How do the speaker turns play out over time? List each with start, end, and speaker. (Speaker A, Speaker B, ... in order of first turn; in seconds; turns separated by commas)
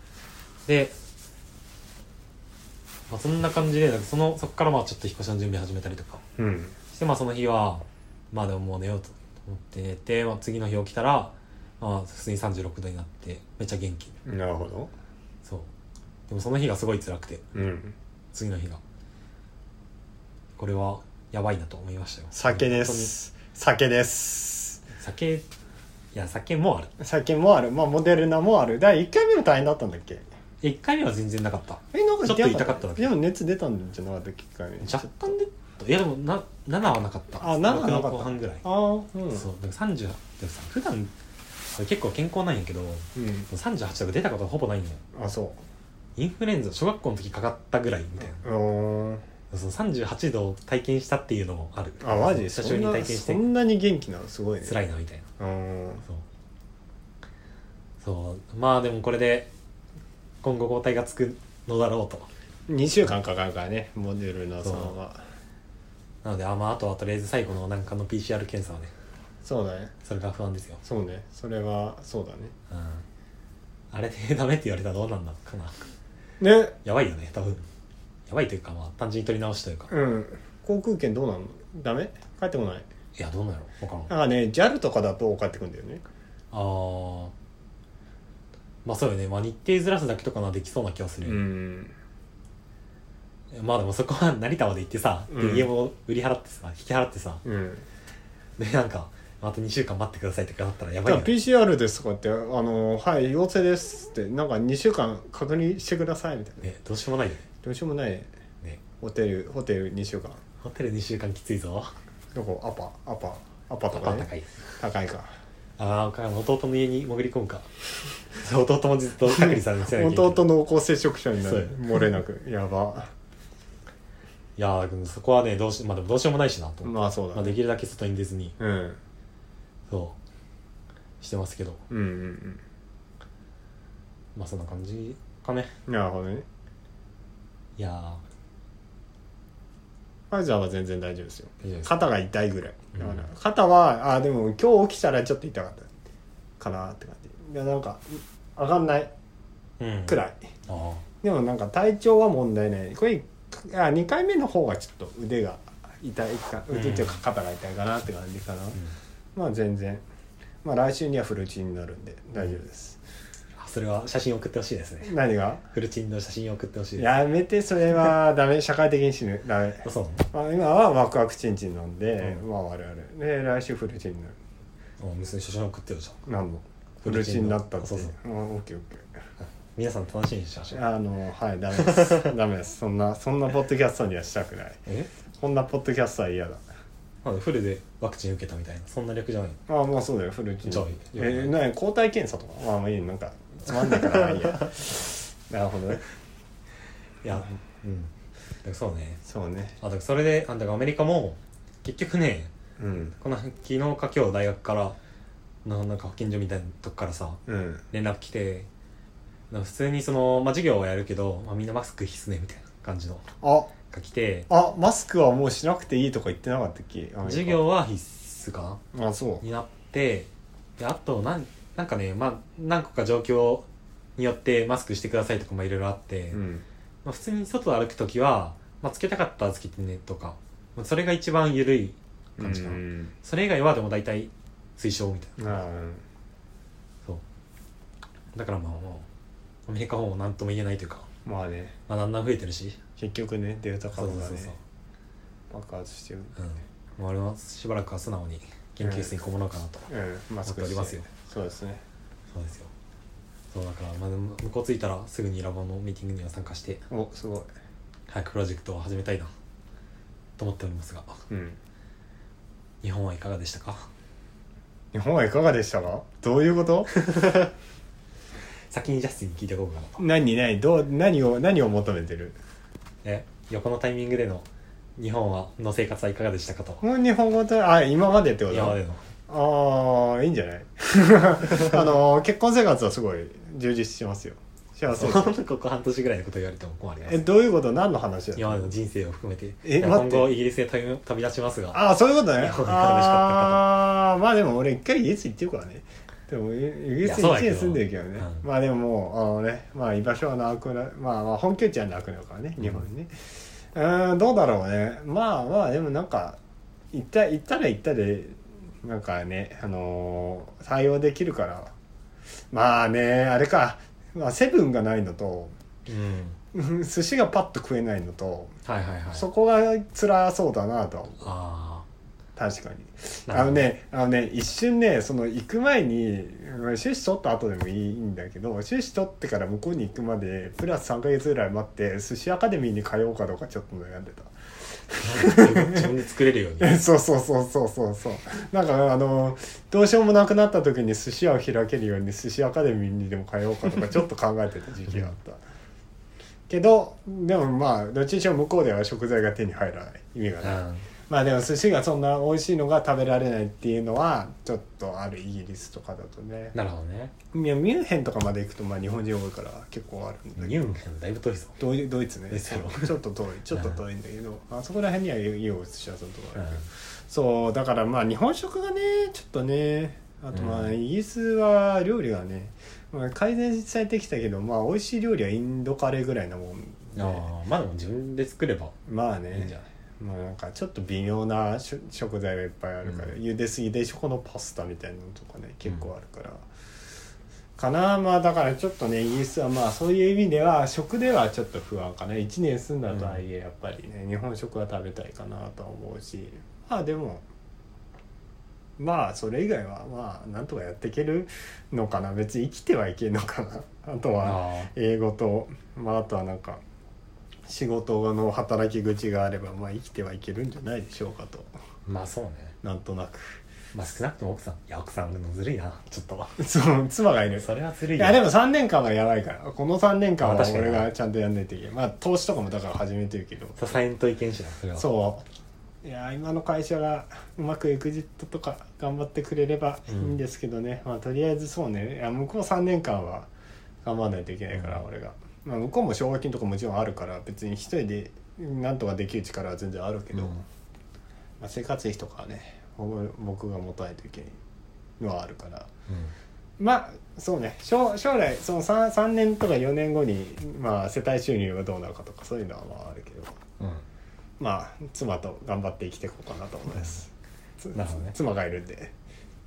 Speaker A: 0.7-0.9, Speaker A: 3.1-6.2, Speaker B: 6.4-6.8, Speaker A: 6.9-14.1, Speaker B: 14.2-14.9, Speaker A: 15.4-15.7, Speaker A: 16.3-17.4, Speaker B: 17.5-17.9, Speaker A: 18.3-18.8, Speaker A: 20.6-23.1, Speaker B: 22.3-24.8, Speaker A: 24.9-25.5, Speaker A: 26.1-26.9, Speaker B: 27.0-30.2, Speaker A: 30.6-33.1, Speaker B: 31.9-35.3, Speaker A: 34.8-38.6, Speaker B: 37.4-39.5, Speaker A: 39.3-41.1, Speaker A: 41.8-45.0, Speaker B: 43.1-43.5, Speaker B: 45.1-45.6, Speaker A: 46.1-48.4, Speaker B: 48.3-49.2, Speaker A: 49.5-53.4, Speaker B: 52.0-54.8, Speaker A: 54.6-55.3, Speaker B: 55.4-56.0, Speaker A: 58.0-59.5, Speaker A: 60.4-62.3, Speaker B: 62.7-65.2, Speaker A: 64.6-65.0, Speaker A: 66.2-68.9, Speaker B: 69.4-69.9, Speaker A: 70.0-70.8, Speaker B: 70.8-72.5, Speaker A: 72.7-73.0, Speaker A: 73.9-75.9, Speaker B: 76.4-76.8, Speaker A: 76.8-77.6, Speaker A: 78.3-79.9, Speaker B: 79.9-82.8, Speaker A: 83.2-84.1, Speaker B: 84.1-86.0, Speaker A: 86.5-87.3, Speaker A: 88.8-91.4, Speaker B: 91.2-92.0, Speaker A: 93.5-97.4, Speaker B: 95.3-95.7, Speaker B: 97.4-97.8, Speaker A: 98.6-101.3, Speaker B: 101.0-106.7, Speaker A: 106.6-107.4, Speaker B: 107.6-108.3, Speaker B: 109.0-110.4, Speaker A: 110.6-111.9, Speaker B: 112.3-115.3, Speaker A: 113.9-114.7, Speaker A: 115.8-120.4, Speaker B: 119.2-123.1, Speaker A: 121.4-122.0, Speaker A: 124.6-128.5, Speaker B: 126.8-127.6, Speaker B: 128.6-129.0, Speaker A: 129.9-130.2, Speaker A: 131.2-131.8, Speaker B: 131.9-132.6, Speaker A: 134.3-135.7, Speaker B: 135.9-136.4, Speaker A: 137.8-138.2, Speaker B: 140.3-145.9, Speaker A: 141.6-141.9, Speaker A: 143.0-143.2, Speaker B: 146.6-149.1, Speaker A: 149.8-151.0, Speaker B: 150.1-150.5, Speaker B: 151.2-158.8, Speaker A: 156.7-157.2, Speaker B: 159.3-160.0, Speaker B: 160.6-163.0, Speaker A: 163.6-165.1, Speaker B: 165.0-165.6, Speaker A: 165.7-167.1, Speaker B: 167.0-174.3, Speaker A: 169.8-170.2, Speaker A: 175.0-176.2, Speaker B: 176.2-179.1, Speaker A: 177.0-178.1, Speaker A: 179.4-180.8, Speaker B: 180.7-184.8, Speaker A: 181.9-182.3, Speaker B: 185.4-186.6, Speaker A: 187.2-189.6, Speaker B: 189.7-196.1, Speaker A: 190.6-191.6, Speaker A: 197.2-198.1, Speaker A: 198.6-199.2, Speaker B: 199.2-199.8, Speaker A: 199.8-202.5, Speaker B: 202.8-203.2, Speaker A: 203.2-204.9, Speaker A: 205.6-207.4, Speaker B: 207.5-207.8, Speaker A: 207.9-208.7, Speaker A: 209.5-213.3, Speaker B: 213.4-213.7, Speaker A: 213.9-214.5, Speaker B: 214.5-217.6, Speaker A: 217.2-218.8, Speaker B: 218.9-219.4, Speaker A: 219.4-226.4, Speaker B: 226.3-226.6, Speaker A: 227.0-235.6, Speaker B: 232.4-233.1, Speaker B: 235.4-236.0, Speaker A: 238.3-239.1, Speaker A: 239.7-241.1, Speaker B: 241.2-241.7, Speaker A: 241.9-242.8, Speaker B: 243.0-244.5, Speaker A: 243.9-244.6, Speaker B: 245.5-246.3, Speaker A: 246.4-249.9, Speaker B: 248.8-249.1, Speaker B: 249.9-251.8, Speaker A: 250.4-251.1, Speaker A: 252.3-252.7, Speaker A: 253.5-256.8, Speaker B: 256.9-257.5, Speaker A: 258.1-259.3, Speaker A: 260.4-261.2, Speaker B: 261.3-261.6, Speaker A: 262.8-263.9, Speaker B: 264.9-266.9, Speaker A: 266.9-267.5, Speaker A: 268.7-270.0, Speaker B: 270.0-272.4, Speaker A: 273.0-276.8, Speaker B: 276.8-285.4, Speaker A: 278.5-279.0, Speaker A: 284.9-287.2, Speaker B: 287.0-288.7, Speaker A: 288.4-293.6, Speaker B: 289.6-290.3, Speaker B: 291.7-306.4, Speaker A: 297.0-298.4, Speaker B: 306.9-311.7, Speaker B: 312.5-315.5, Speaker A: 315.9-316.4, Speaker B: 316.5-318.6, Speaker A: 318.6-319.3, Speaker B: 319.1-321.2, Speaker A: 321.2-321.9, Speaker B: 322.4-334.3, Speaker A: 323.3-323.7, Speaker B: 334.9-335.9, Speaker A: 335.0-336.8, Speaker B: 336.6-345.4, Speaker B: 346.5-356.5, Speaker A: 350.4-350.9, Speaker A: 356.5-357.1, Speaker B: 357.3-360.8, Speaker A: 360.4-361.6, Speaker B: 361.6-377.3, Speaker A: 362.3-362.9, Speaker A: 363.5-363.8, Speaker A: 366.4-366.6, Speaker A: 370.3-370.7, Speaker A: 376.9-378.8, Speaker B: 378.9-386.4, Speaker A: 379.3-379.6, Speaker A: 382.8-383.1, Speaker B: 387.6-397.2, Speaker A: 392.9-393.2, Speaker B: 398.8-406.6, Speaker A: 404.2-404.7, Speaker B: 407.4-411.5, Speaker A: 411.9-412.6, Speaker B: 412.6-413.4, Speaker A: 413.7-416.4, Speaker B: 416.4-423.6, Speaker A: 417.4-418.2, Speaker A: 420.2-420.9, Speaker A: 423.6-424.9, Speaker B: 424.8-425.2, Speaker B: 425.8-433.3, Speaker B: 433.8-440.4, Speaker A: 434.5-434.8, Speaker A: 440.1-440.4, Speaker B: 441.4-444.4, Speaker B: 445.0-445.7, Speaker A: 445.9-446.1, Speaker B: 446.6-453.4, Speaker A: 453.6-453.8, Speaker B: 454.4-457.1, Speaker B: 457.6-458.9, Speaker A: 457.7-458.1